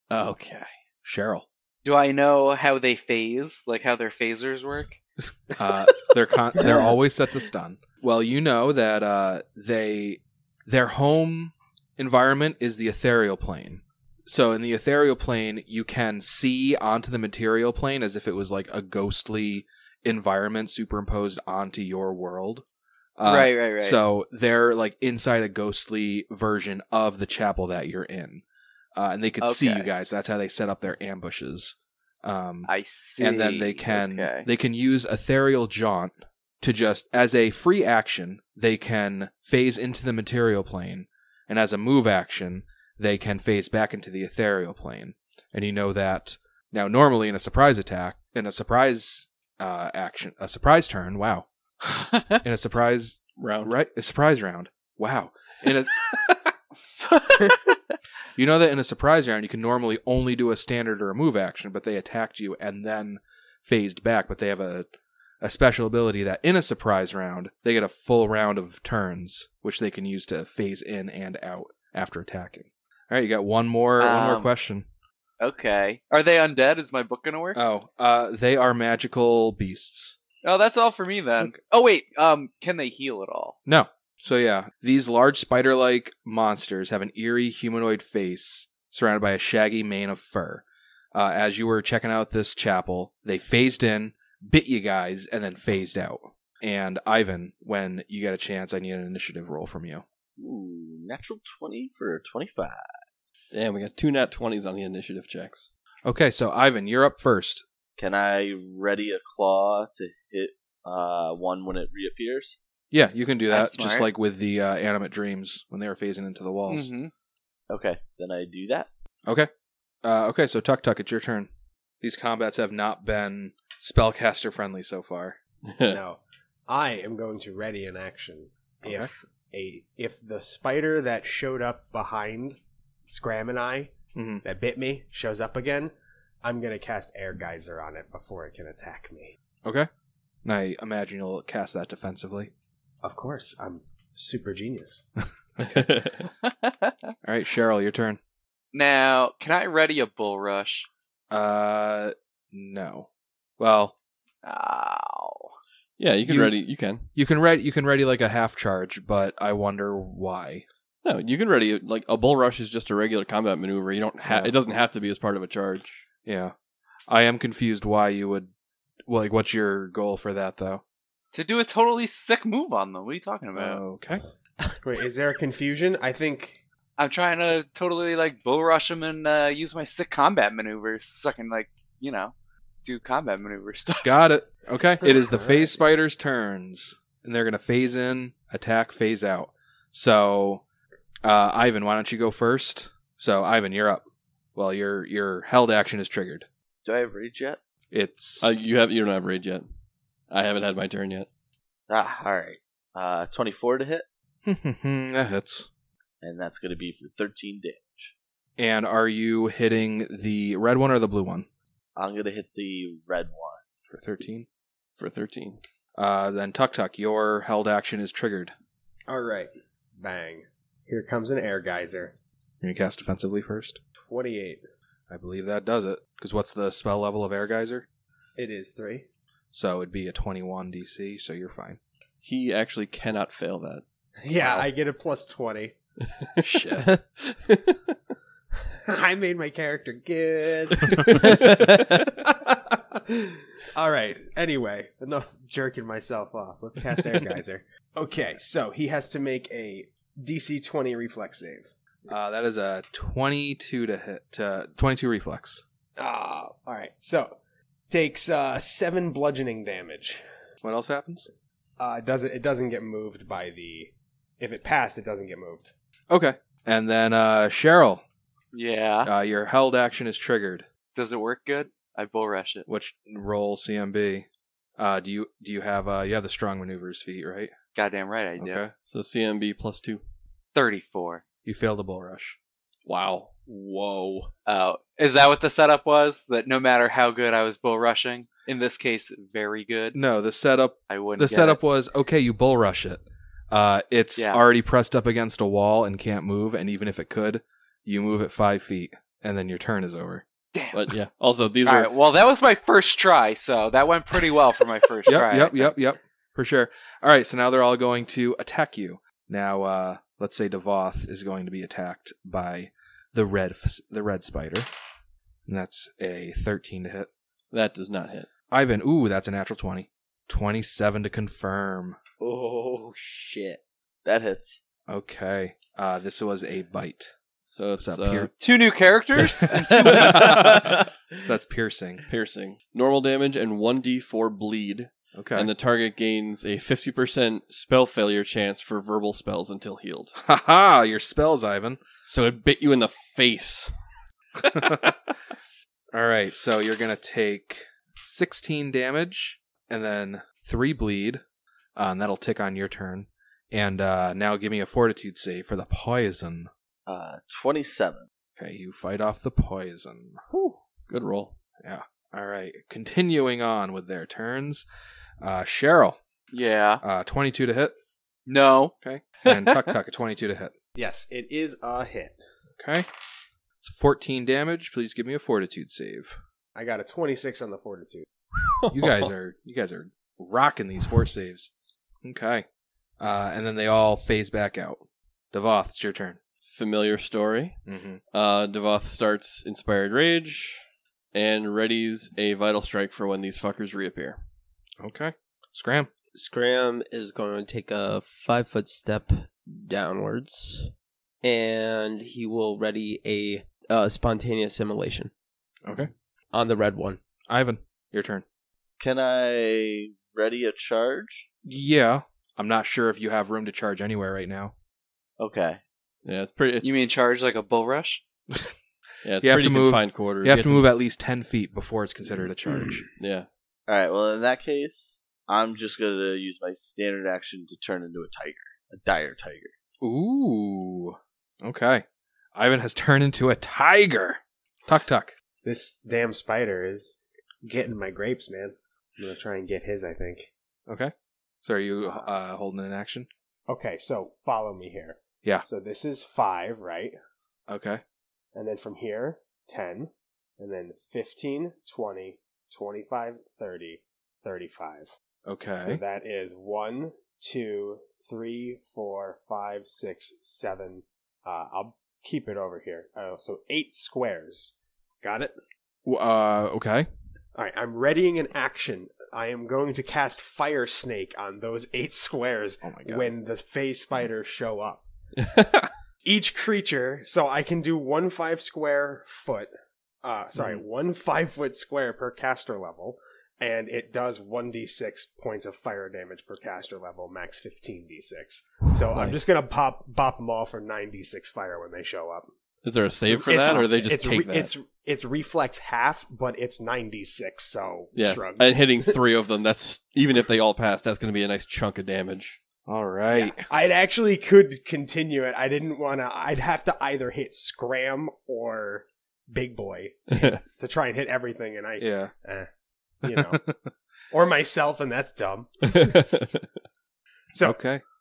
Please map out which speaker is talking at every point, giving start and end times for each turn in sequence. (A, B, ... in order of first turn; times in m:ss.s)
0:00.1-0:00.7 A
0:01.0-0:01.4 B
0:01.8-0:05.0 C
0:05.5-0:22.6 B
0:23.2-0:28.4 B
0:23.2-0:24.0 C
0:28.9-0:51.5 B
0:29.4-0:29.9 C
0:32.7-0:34.4 C
0:51.9-0:52.4 C
0:52.4-0:56.5 B
0:53.4-0:53.7 A
0:57.0-0:57.7 C
0:58.4-1:04.9 B
1:05.4-1:14.9 B
1:14.0-1:14.5 C
1:15.4-1:17.6 C
1:17.5-1:20.2 B
1:20.4-1:23.6 C
1:23.6-1:40.0 B
1:40.4-1:42.9 D
1:43.5-1:45.7 A
1:46.0-1:47.6 B
1:48.0-1:52.6 D
1:52.9-1:56.9 B
1:53.5-1:54.0 C
1:56.7-1:57.1 C
1:57.7-1:58.9 D
2:00.0-2:01.5 B
2:02.0-2:05.4 B
2:05.6-2:06.0 A
2:05.9-2:13.9 E
2:08.8-2:09.1 B
2:14.1-2:14.4 B
2:14.4-2:15.9 E
2:16.4-2:19.3 E
2:20.4-2:22.5 B
2:23.0-2:25.0 E
2:25.6-2:25.9 B
2:25.6-2:26.2 A
2:26.4-2:27.1 C
2:27.2-2:28.2 B
2:28.7-2:30.9 C
2:31.3-2:33.1 B
2:33.6-2:33.9 B
2:34.4-2:35.5 C
2:36.0-2:37.1 A
2:36.2-2:36.6 B
2:37.1-2:40.6 B
2:41.0-2:46.0 A
2:44.2-2:44.5 B
2:46.2-2:46.5 B
2:47.1-2:48.5 B
2:49.0-2:50.8 B
2:51.3-2:53.8 C
2:53.5-2:54.2 B
2:54.8-2:56.6 E
2:57.0-3:02.3 C
3:02.8-3:04.2 C
3:04.0-3:10.6 B
3:11.2-3:16.5 B
3:16.8-3:17.6 D
3:17.9-3:18.6 B
3:18.4-3:19.7 A
3:20.3-3:21.3 A
3:21.9-3:24.0 D
3:24.4-3:25.7 B
3:26.2-3:28.1 D
3:28.6-3:31.5 B
3:32.0-3:33.6 D
3:33.9-3:34.5 B
3:35.0-3:35.6 A
3:36.0-3:38.5 B
3:39.1-3:42.1 E
3:42.6-3:43.8 B
3:44.0-3:44.6 E
3:45.1-3:47.8 B
3:48.4-3:49.0 E
3:49.5-3:51.8 B
3:52.2-3:53.8 A
3:54.2-3:55.7 E
3:56.4-3:56.9 B
3:56.9-3:57.8 A
3:58.8-4:01.2 E
4:01.1-4:01.5 A
4:01.1-4:02.0 F
4:02.0-4:11.7 E
4:12.1-4:15.6 B
4:16.0-4:17.4 E
4:17.9-4:20.2 E
4:20.6-4:21.3 B
4:21.8-4:25.7 E
4:26.1-4:28.0 B
4:28.5-4:29.1 C
4:29.0-4:30.7 B
4:30.9-4:32.6 C
4:32.7-4:37.5 B
4:37.7-4:38.6 C
4:38.4-4:38.7 B
4:38.8-4:40.0 A
4:40.5-4:41.2 C
4:41.4-4:42.4 B
4:42.8-4:43.5 A
4:43.5-4:44.3 F
4:44.4-4:50.0 C
4:49.9-5:00.2 B
4:50.9-4:51.6 C
4:54.2-4:54.4 C
5:00.5-5:00.9 C
5:00.7-5:01.9 A
5:01.6-5:05.7 C
5:05.0-5:14.7 B
5:15.4-5:17.1 B
5:17.5-5:18.3 A
5:18.5-5:22.0 B
5:22.2-5:23.6 F
5:24.0-5:24.6 D
5:24.9-5:27.1 B
5:27.4-5:28.3 A
5:27.8-5:28.3 B
5:28.4-5:30.4 C
5:29.4-5:32.0 B
5:30.1-5:30.8 A
5:30.4-5:30.7 F
5:32.1-5:40.2 A
5:35.1-5:35.5 B
5:40.2-5:41.8 B
5:42.0-5:43.7 A
5:44.4-5:44.7 A
5:44.5-5:44.9 B
5:45.9-5:51.2 B
5:51.8-5:56.5 B
5:56.9-5:58.1 D
5:58.4-6:00.2 B
6:00.3-6:01.3 A
6:01.6-6:04.6 B
6:05.2-6:06.0 B
6:06.3-6:06.8 C
6:06.8-6:07.7 B
6:08.2-6:08.7 C
6:08.8-6:10.5 B
6:09.2-6:09.7 C
6:10.8-6:12.2 E
6:12.6-6:12.9 B
6:13.6-6:16.2 B
6:16.6-6:18.0 E
6:18.6-6:19.1 A
6:18.7-6:21.5 B
6:22.0-6:22.4 B
6:23.0-6:26.2 B
6:26.4-6:27.6 A
6:27.7-6:28.0 B
6:28.1-6:30.6 A
6:31.1-6:34.2 A
6:34.8-6:35.9 B
6:36.1-6:40.7 F
6:41.2-6:45.1 F
6:45.6-6:45.9 B
6:46.3-6:47.0 F
6:47.2-6:48.2 B
6:48.8-6:51.3 D
6:51.4-6:54.5 B
6:55.2-6:55.6 D
6:56.0-6:56.7 A
6:56.6-6:58.0 C
6:58.3-6:58.6 B
6:59.0-7:00.7 A
6:59.2-7:02.8 B
7:03.0-7:03.3 A
7:03.7-7:09.5 D
7:09.8-7:15.1 B
7:15.4-7:20.3 E
7:20.7-7:23.1 B
7:23.5-7:26.9 E
7:27.5-7:27.8 B
7:28.3-7:34.9 E
7:35.2-7:35.8 B
7:35.6-7:45.3 E
7:45.8-7:46.9 B
7:47.3-7:54.9 E
7:52.6-7:53.1 B
7:55.2-7:55.7 A
7:56.0-7:59.5 E
8:00.0-8:12.3 E
8:00.4-8:00.6 B
8:08.9-8:09.4 A
8:12.6-8:14.5 A
8:13.0-8:18.9 E
8:17.9-8:22.4 A
8:22.7-8:23.4 B
8:23.1-8:32.5 E
8:30.1-8:30.4 A
8:31.8-8:32.1 B
8:33.0-8:33.4 E
8:33.0-8:33.6 B
8:34.1-8:36.0 E
8:35.7-8:36.4 A
8:37.3-8:37.6 E
8:37.4-8:37.8 B